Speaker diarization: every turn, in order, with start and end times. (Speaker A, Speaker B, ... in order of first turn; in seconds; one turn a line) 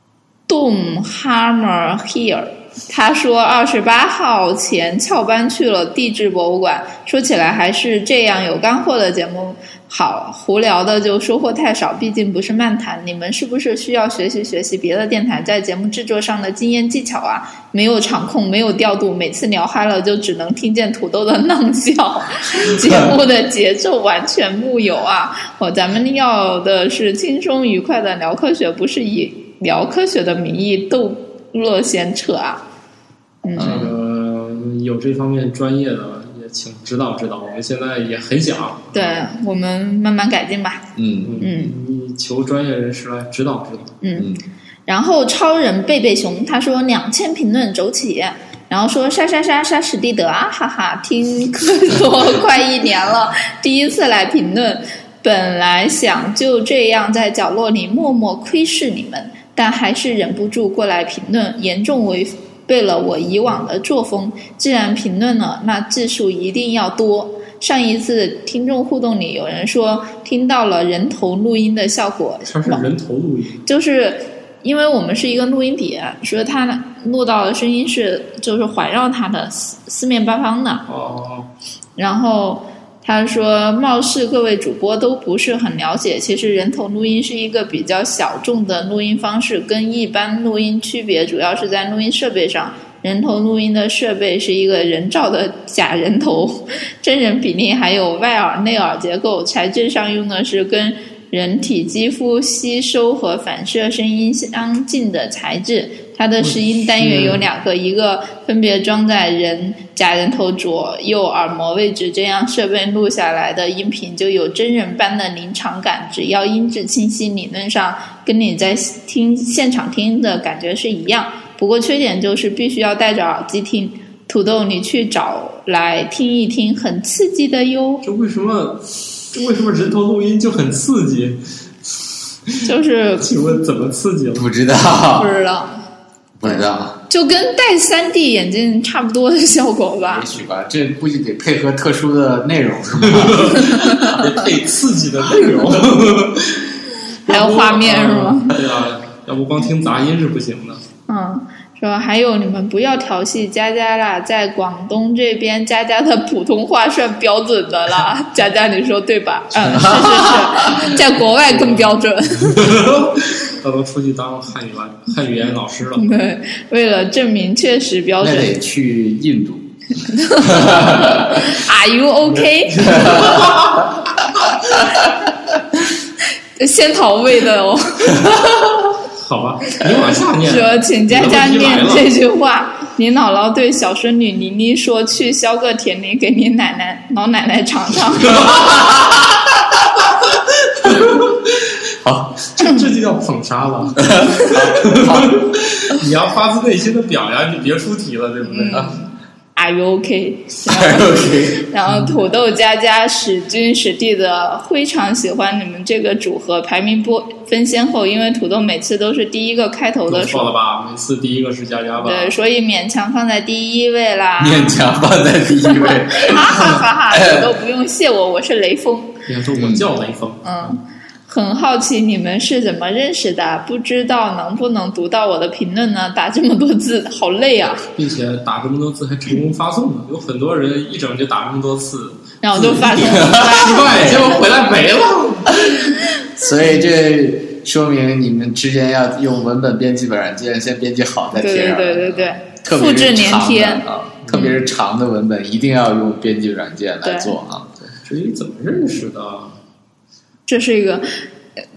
Speaker A: 0.5-32.6
Speaker A: 33.4-33.8
Speaker B: 33.6-33.9
Speaker C: 33.6-39.1
Speaker A: 38.9-40.9
Speaker B: 41.0-41.4
Speaker C: 41.2-44.0
Speaker A: 41.4-41.7
Speaker A: 44.0-44.3
Speaker B: 44.2-44.4
Speaker A: 44.9-72.9
Speaker C: 72.5-73.6
Speaker A: 73.7-80.8
Speaker C: 80.9-81.5
Speaker A: 82.0-128.0
Speaker C: 106.4-107.5
Speaker C: 128.0-131.9
Speaker A: 132.6-133.3
Speaker C: 133.2-134.5
Speaker B: 134.3-135.3
Speaker A: 135.2-135.8
Speaker B: 136.4-137.0
Speaker A: 136.4-140.3
Speaker B: 140.0-143.9
Speaker C: 143.0-146.7
Speaker A: 143.8-144.2
Speaker C: 147.3-150.8
Speaker A: 147.3-148.6
Speaker A: 151.1-162.8
Speaker B: 159.6-160.9
Speaker C: 162.6-166.2
Speaker A: 166.0-168.5
Speaker B: 168.2-169.7
Speaker A: 170.1-173.2
Speaker B: 170.4-171.5
Speaker C: 172.7-174.0
Speaker B: 172.9-173.6
Speaker A: 176.6-178.3
Speaker C: 179.1-182.1
Speaker A: 180.4-188.5
Speaker B: 188.3-189.8
Speaker C: 188.4-188.8
Speaker C: 190.9-191.3
Speaker B: 192.0-192.4
Speaker C: 192.5-198.9
Speaker B: 194.0-195.7
Speaker A: 198.4-210.5
Speaker B: 200.7-201.7
Speaker C: 210.1-212.4
Speaker A: 212.0-214.8
Speaker B: 214.4-217.6
Speaker A: 215.6-219.1
Speaker C: 219.3-220.8
Speaker B: 219.6-219.9
Speaker A: 220.4-227.9
Speaker C: 228.0-235.6
Speaker A: 232.4-234.3
Speaker B: 233.2-234.3
Speaker B: 235.6-235.8
Speaker B: 236.4-247.7
Speaker A: 241.4-243.9
Speaker C: 244.2-244.6
Speaker A: 247.0-247.4
Speaker C: 247.8-249.6
Speaker A: 250.5-251.2